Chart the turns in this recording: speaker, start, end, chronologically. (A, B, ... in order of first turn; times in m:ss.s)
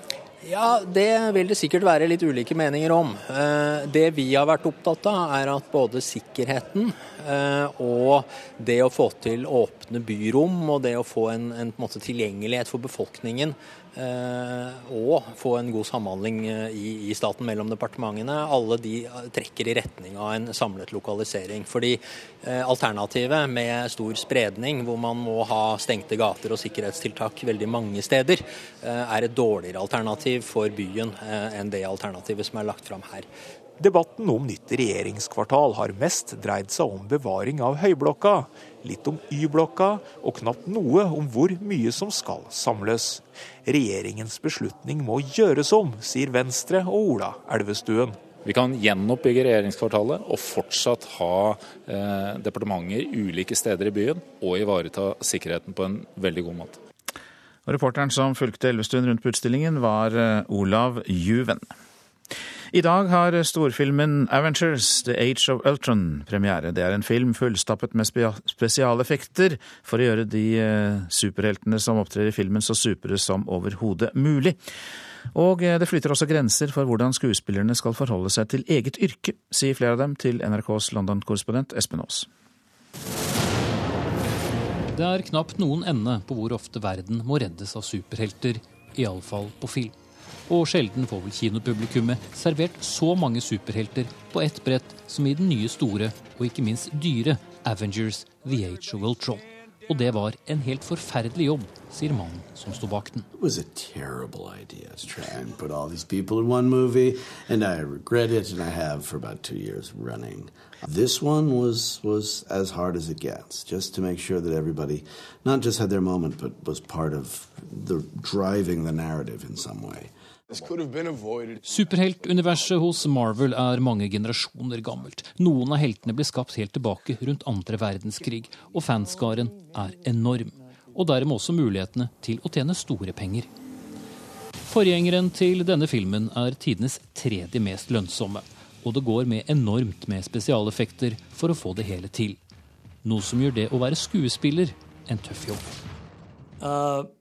0:00.4-0:33.3 A
0:33.8-0:48.2 B
0:48.4-0:56.8 C
0:57.6-1:01.7 D
1:02.7-1:14.6 D
1:15.3-1:22.3 D
1:24.9-1:29.9 E
1:30.5-1:43.2 E
1:43.3-2:00.1 F
2:01.6-2:13.5 E
2:14.7-2:22.4 E
2:23.0-2:25.6 E